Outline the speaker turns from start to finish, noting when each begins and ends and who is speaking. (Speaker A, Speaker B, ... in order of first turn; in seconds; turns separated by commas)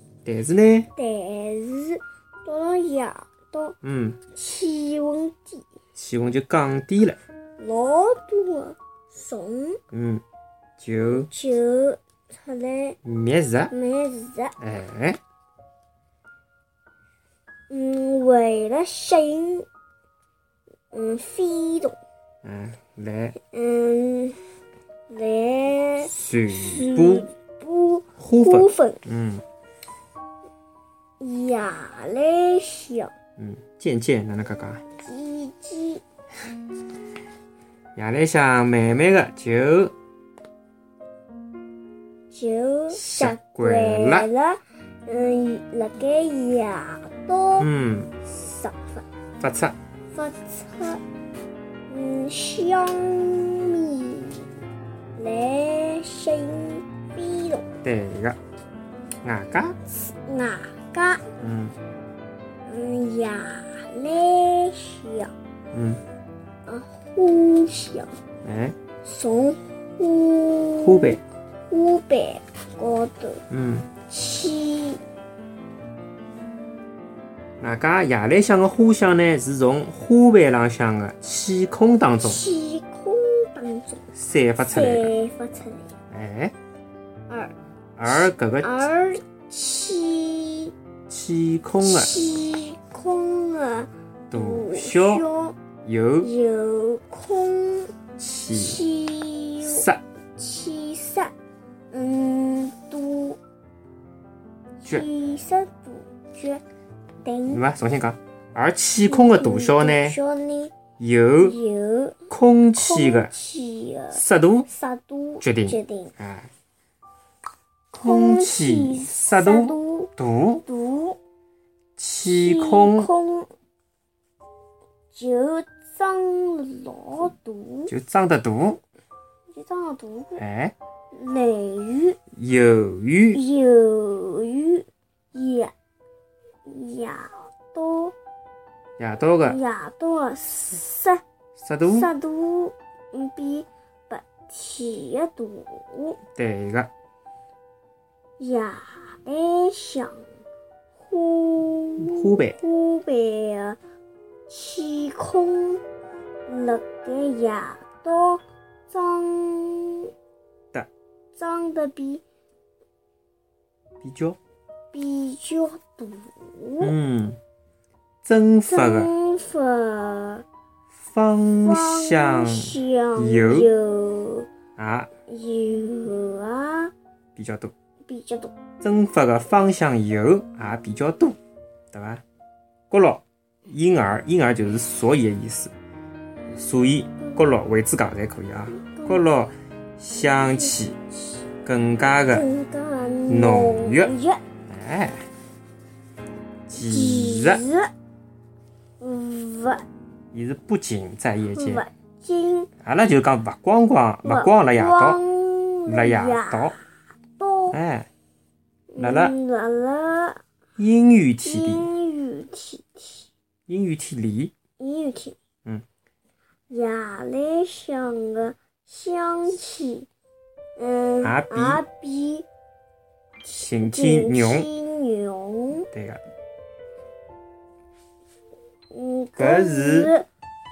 Speaker A: 0.2-0.9, Speaker B: 1.0-3.8, Speaker A: 3.8-4.2, Speaker B: 4.3-5.7, Speaker A: 6.0-7.2, Speaker B: 7.6-9.8, Speaker A: 9.9-10.2, Speaker A: 10.8-11.3, Speaker B: 11.1-13.0, Speaker A: 13.0-13.7, Speaker B: 13.7-14.6, Speaker A: 14.6-15.2, Speaker B: 17.7-19.7, Speaker B: 20.9-22.0, Speaker A: 22.4-23.4, Speaker B: 23.4-24.4, Speaker B: 25.1-29.0, Speaker A: 26.0-27.3, Speaker A: 28.2-29.4, Speaker B: 31.2-33.1, Speaker A: 33.4-34.8, Speaker B: 35.0-36.0, Speaker A: 38.0-39.9, Speaker B: 42.3-47.7, Speaker A: 42.9-44.3, Speaker A: 47.6-48.1, Speaker B: 48.3-49.0, Speaker A: 49.4-49.8, Speaker B: 50.1-51.0, Speaker B: 51.9-54.5, Speaker B: 55.2-57.6, Speaker A: 57.8-58.4, Speaker A: 59.2-59.8, Speaker B: 60.0-61.2, Speaker A: 61.4-61.8, Speaker B: 62.7-65.3, Speaker A: 65.7-66.0, Speaker B: 66.7-68.1, Speaker A: 68.4-68.8, Speaker B: 69.0-73.4, Speaker A: 70.8-71.2, Speaker A: 73.5-73.9, Speaker B: 74.1-75.0, Speaker A: 77.6-82.4, Speaker B: 82.2-84.0, Speaker A: 84.1-85.1, Speaker B: 84.7-85.9, Speaker A: 86.1-86.5, Speaker B: 87.3-87.5, Speaker A: 88.0-88.9, Speaker B: 88.1-90.7, Speaker A: 91.1-92.2, Speaker B: 91.8-95.6, Speaker A: 94.3-95.3, Speaker A: 95.8-96.3, Speaker B: 96.2-97.9, Speaker A: 98.2-98.8, Speaker B: 98.5-101.3, Speaker A: 99.6-100.0, Speaker B: 101.9-103.4, Speaker B: 104.8-106.6, Speaker B: 107.2-107.6, Speaker A: 107.5-110.2, Speaker B: 109.0-110.7, Speaker A: 111.0-111.6, Speaker B: 111.4-116.1, Speaker A: 112.3-113.3, Speaker A: 114.1-114.7, Speaker A: 115.4-116.5, Speaker B: 117.9-120.1, Speaker A: 117.9-120.7, Speaker B: 120.7-121.2, Speaker A: 122.0-123.1, Speaker B: 122.3-123.5, Speaker B: 125.1-127.9, Speaker A: 127.9-128.8, Speaker B: 129.5-130.4, Speaker A: 130.4-130.8, Speaker B: 131.1-132.2, Speaker A: 132.3-133.4, Speaker B: 133.3-135.7, Speaker B: 136.7-138.2, Speaker A: 139.0-139.6, Speaker B: 139.4-141.2, Speaker A: 141.6-142.1, Speaker B: 141.9-146.2, Speaker A: 146.4-146.9, Speaker B: 148.4-150.3, Speaker B: 151.0-153.8, Speaker A: 152.0-152.6, Speaker B: 154.5-155.8, Speaker B: 156.5-160.1, Speaker B: 161.4-162.2, Speaker A: 164.0-164.4, Speaker B: 164.9-166.9, Speaker A: 166.8-167.4, Speaker A: 168.2-169.1, Speaker B: 168.7-170.4, Speaker A: 170.9-173.7, Speaker B: 171.7-174.5, Speaker A: 174.8-175.1, Speaker B: 175.3-176.9, Speaker A: 177.4-177.7, Speaker B: 178.1-178.5, Speaker A: 178.8-181.4, Speaker A: 181.9-182.2, Speaker A: 182.9-185.7, Speaker A: 186.5-191.0, Speaker B: 188.7-189.2, Speaker B: 190.3-190.7, Speaker A: 191.7-192.5, Speaker B: 192.3-194.4, Speaker A: 193.3-194.1, Speaker A: 194.7-195.3, Speaker A: 196.7-197.6, Speaker B: 196.8-197.9, Speaker B: 199.0-199.8, Speaker A: 200.3-201.8, Speaker B: 201.5-202.7, Speaker A: 202.8-205.2, Speaker B: 204.2-206.8, Speaker A: 205.9-206.8, Speaker B: 207.4-207.8, Speaker A: 207.7-208.1, Speaker B: 208.9-210.4, Speaker A: 209.0-209.3, Speaker A: 210.8-211.9, Speaker B: 211.4-213.3, Speaker A: 213.7-214.5, Speaker B: 214.8-215.4, Speaker B: 216.7-220.1, Speaker B: 220.8-222.5, Speaker A: 221.2-221.8, Speaker B: 223.4-225.9, Speaker A: 223.6-224.7, Speaker A: 225.9-226.2, Speaker B: 228.9-230.3, Speaker A: 229.4-230.1